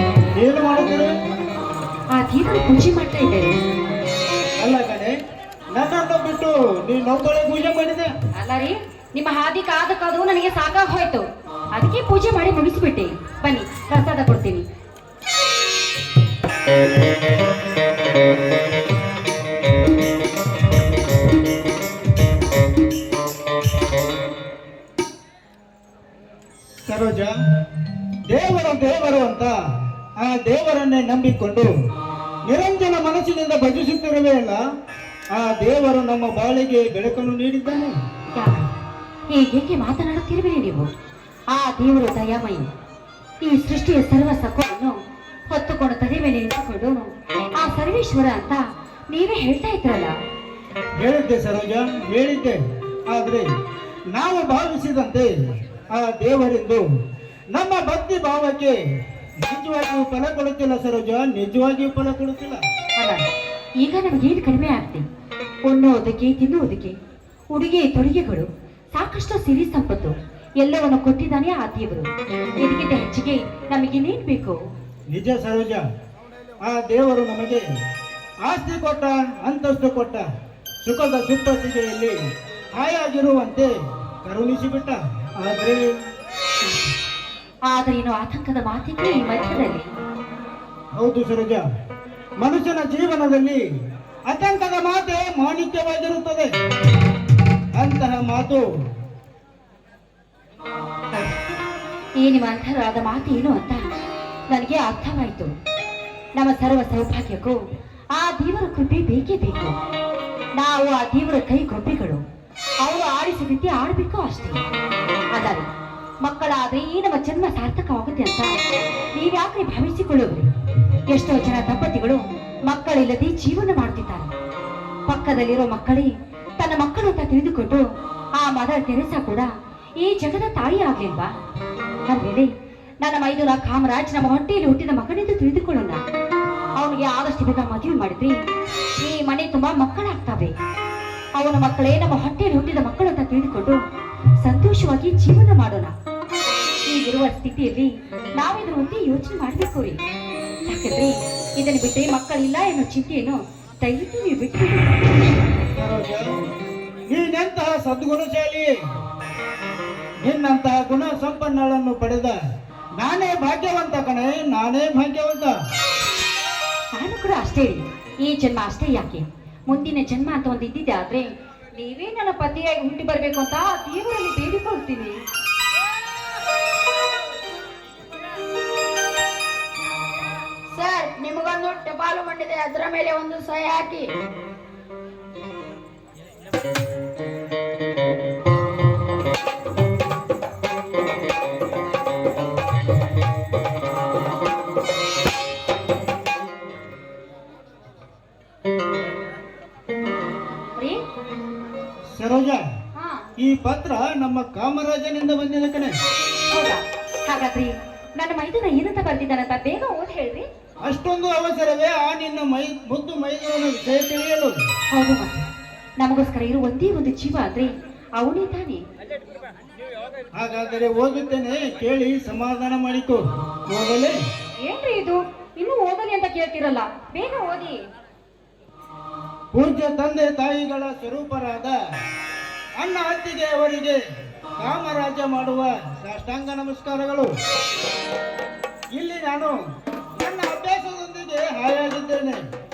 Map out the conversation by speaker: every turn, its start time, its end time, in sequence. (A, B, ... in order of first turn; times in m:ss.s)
0:00.4-0:01.1 A
0:02.2-0:03.6 B
0:04.6-0:05.2 A
0:05.8-0:08.1 A
0:08.4-0:14.6 B
0:26.9-0:27.3 A
0:28.3-0:29.5 A
0:30.2-0:31.7 A
0:32.5-0:34.6 A
0:35.4-0:37.9 A
0:38.4-0:38.6 B
0:39.3-0:40.9 B
0:41.5-0:42.7 B
0:43.4-0:45.0 B
0:45.5-0:50.2 B
0:51.0-0:53.5 A
0:54.1-0:55.3 A
0:55.9-0:56.9 A
0:57.5-0:58.8 A
0:59.4-1:02.6 A
1:03.0-1:03.2 B
1:03.8-1:05.1 B
1:05.7-1:07.0 B
1:07.5-1:12.1 B
1:12.6-1:14.6 B
1:15.1-1:15.8 A
1:16.6-1:17.6 A
1:18.5-1:20.3 A
1:20.8-1:22.2 A
1:22.8-1:23.7 A
1:24.3-1:25.8 A
1:26.6-1:26.9 B
1:27.7-1:29.9 B
1:31.0-1:31.6 A
1:32.4-1:33.6 A
1:34.3-1:36.5 A
1:37.8-1:38.6 A
1:42.2-1:43.8 B
1:44.5-1:45.5 B
1:46.4-1:47.6 B
1:48.2-1:49.8 B
1:50.6-1:52.2 B
1:52.8-1:54.6 B
1:55.3-1:55.7 B
1:56.2-1:58.5 B
1:59.2-2:00.5 B
2:01.1-2:04.3 B
2:05.1-2:07.9 B
2:08.4-2:11.3 B
2:12.1-2:12.5 B
2:13.0-2:16.0 B
2:16.8-2:18.4 B
2:19.0-2:20.6 B
2:21.4-2:23.8 B
2:24.4-2:25.9 B
2:26.9-2:30.0 B
2:30.7-2:34.9 B
2:35.7-2:36.3 A
2:37.1-2:38.7 A
2:40.2-2:42.4 A
2:43.0-2:45.5 A
2:47.0-2:55.2 B
3:00.7-3:04.1 C
3:20.8-3:21.0 B
3:22.2-3:22.6 A
3:23.0-3:23.2 B
3:23.4-3:26.0 A
3:26.5-3:30.5 B
3:30.9-3:34.6 A
3:34.9-3:35.5 B
3:36.0-3:38.8 B
3:40.4-3:44.2 A
3:44.6-3:47.8 B
3:49.5-3:51.8 A
3:52.8-3:54.0 A
3:54.6-3:57.3 A
3:59.0-3:59.6 A
4:00.2-4:02.4 A